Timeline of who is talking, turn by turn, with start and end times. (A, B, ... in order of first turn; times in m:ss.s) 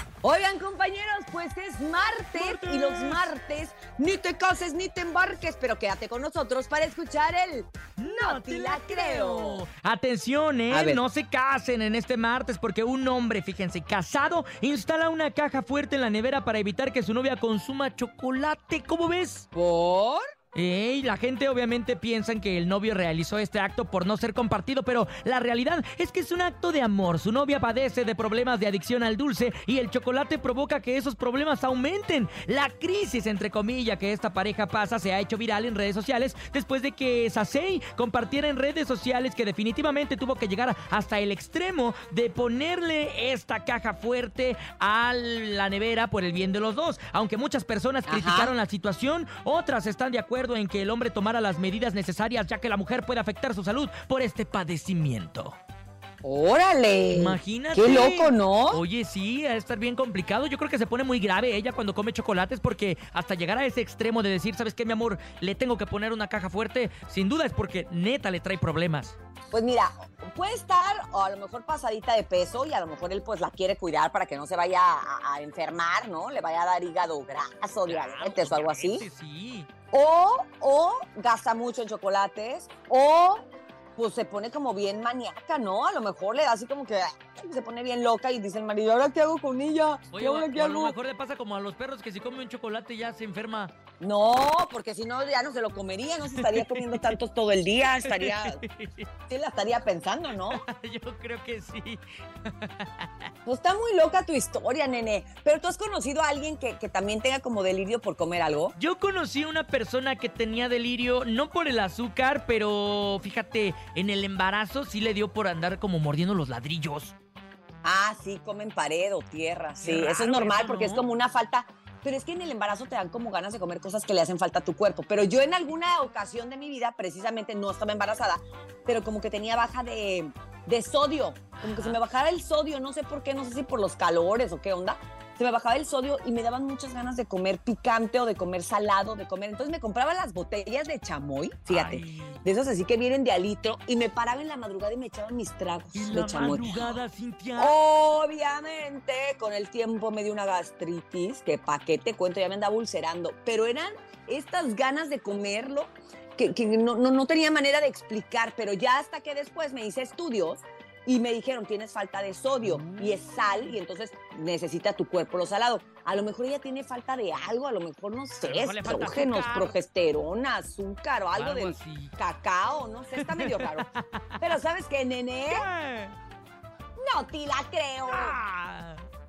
0:00.2-0:09.6 A
0:02.2-0:03.3 B
0:08.0-0:19.5 B
0:10.7-0:11.0 A
0:19.5-0:20.2 A
0:20.5-0:55.6 B
0:48.1-0:48.5 A
0:56.2-0:58.8 A
0:57.1-1:09.2 B
1:09.5-1:19.1 A
1:17.8-1:19.7 B
1:19.9-1:23.4 A
1:24.0-1:31.0 A
1:30.1-1:33.7 B
1:34.0-1:38.6 A
1:36.2-1:37.2 B
1:37.8-1:39.1 B
1:39.3-1:40.6 A
1:40.4-1:43.3 B
1:43.4-1:48.7 A
1:48.8-1:57.1 B
1:57.8-2:27.0 A
1:59.8-2:01.0 B
2:11.6-2:12.0 B
2:21.7-2:22.4 B
2:25.9-2:27.8 B
2:27.6-2:53.9 A
2:42.6-2:43.8 B
2:48.4-2:49.7 B
2:51.3-2:52.2 B
2:53.1-2:54.5 B
2:54.4-2:55.7 A
2:55.5-2:56.2 B
2:57.0-2:58.4 A
2:58.0-2:59.0 B